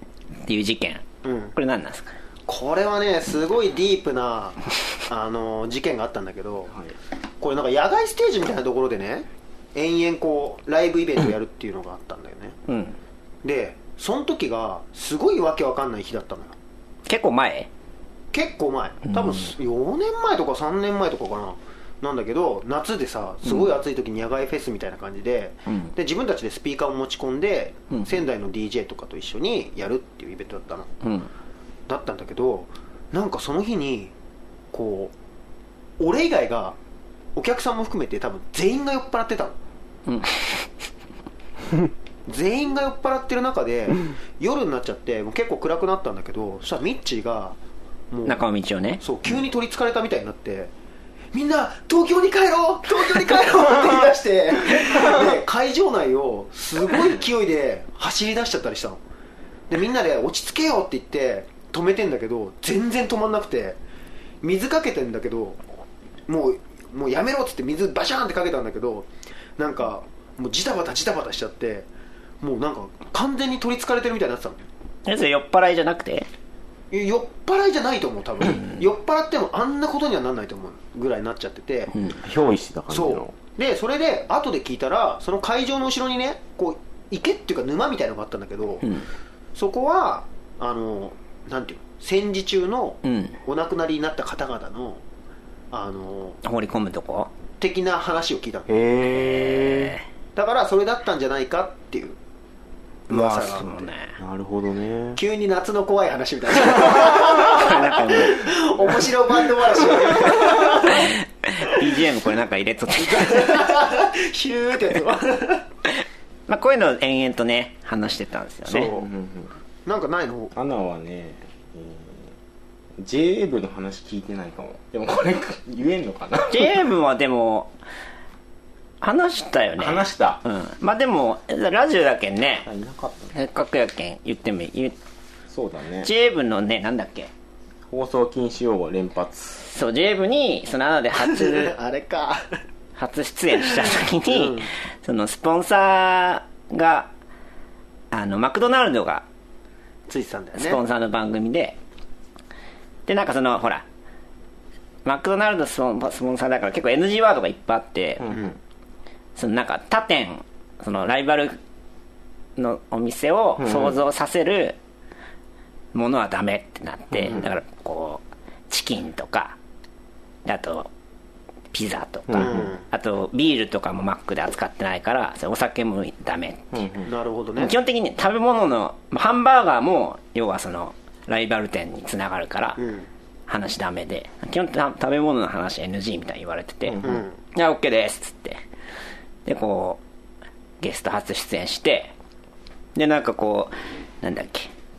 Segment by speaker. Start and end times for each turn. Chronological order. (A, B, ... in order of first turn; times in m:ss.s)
0:00.4-0:01.0 A
0:01.2-0:01.5 B
0:01.5-0:02.1 A
0:02.5-0:06.8 B
0:07.4-0:12.6 B
0:12.7-0:13.0 A
0:13.4-0:16.5 B
0:17.1-0:17.7 A
0:18.3-0:30.9 B
0:19.1-0:19.5 A
0:23.4-0:23.7 A
0:25.7-0:25.9 A
0:31.0-0:31.3 A
0:31.9-0:34.1 B
0:34.7-0:35.1 B
0:36.0-0:36.8 B
0:37.4-0:39.6 B
0:40.1-0:40.7 A
0:42.3-0:47.6 B
0:48.1-0:48.4 B
0:48.2-0:49.0 A
0:49.0-0:50.7 B
0:51.3-0:59.0 B
0:59.7-1:03.8 B
1:04.4-1:05.6 B
1:06.3-1:11.9 B
1:12.4-1:14.7 B
1:15.0-1:16.3 A
1:16.9-1:21.9 B
1:22.2-1:23.3 C
1:22.9-1:28.9 B
1:28.8-1:29.1 A
1:29.5-1:35.0 B
1:33.0-1:33.4 A
1:35.7-1:36.4 B
1:36.4-1:37.3 A
1:37.6-1:38.7 B
1:38.7-1:39.9 C
1:39.1-1:40.0 A
1:40.4-1:42.2 B
1:43.1-1:43.9 B
1:43.1-1:44.2 A
1:44.2-1:45.2 C
1:45.1-1:51.1 B
1:47.4-1:48.4 A
1:50.7-1:53.6 A
1:53.0-1:55.6 B
1:56.5-1:58.9 A
1:58.7-1:59.1 B
1:58.9-1:59.5 C
1:59.8-2:00.5 B
2:00.5-2:02.3 C
2:03.0-2:06.7 C
2:06.5-2:07.7 A
2:09.0-2:12.7 A
2:09.8-2:10.4 C
2:12.6-2:13.3 C
2:13.3-2:15.0 A
2:15.5-2:16.1 C
2:16.0-2:17.3 A
2:17.9-2:19.6 C
2:19.6-2:21.7 A
2:21.2-2:22.6 B
2:23.0-2:27.1 A
2:24.3-2:24.7 B
2:28.1-2:29.2 A
2:30.1-2:30.8 B
2:30.6-2:31.8 A
2:33.1-2:33.8 A
2:35.0-2:38.3 A
2:38.2-2:38.5 C
2:39.4-2:41.6 A
2:42.6-2:44.8 A
2:43.6-2:44.0 C
2:45.9-2:49.6 A
2:47.1-2:47.4 C
2:50.4-2:50.9 A
2:51.7-2:56.7 A
2:52.3-2:52.7 C
2:52.4-2:52.8 B
2:56.7-2:57.1 C
2:57.0-2:57.7 B
2:57.6-3:02.8 A
3:02.8-3:03.1 B
3:03.5-3:07.0 A
3:06.8-3:07.2 C
3:07.0-3:07.4 B
3:07.5-3:08.6 A
3:09.4-3:10.0 A
3:10.8-3:12.1 A
3:12.9-3:14.7 A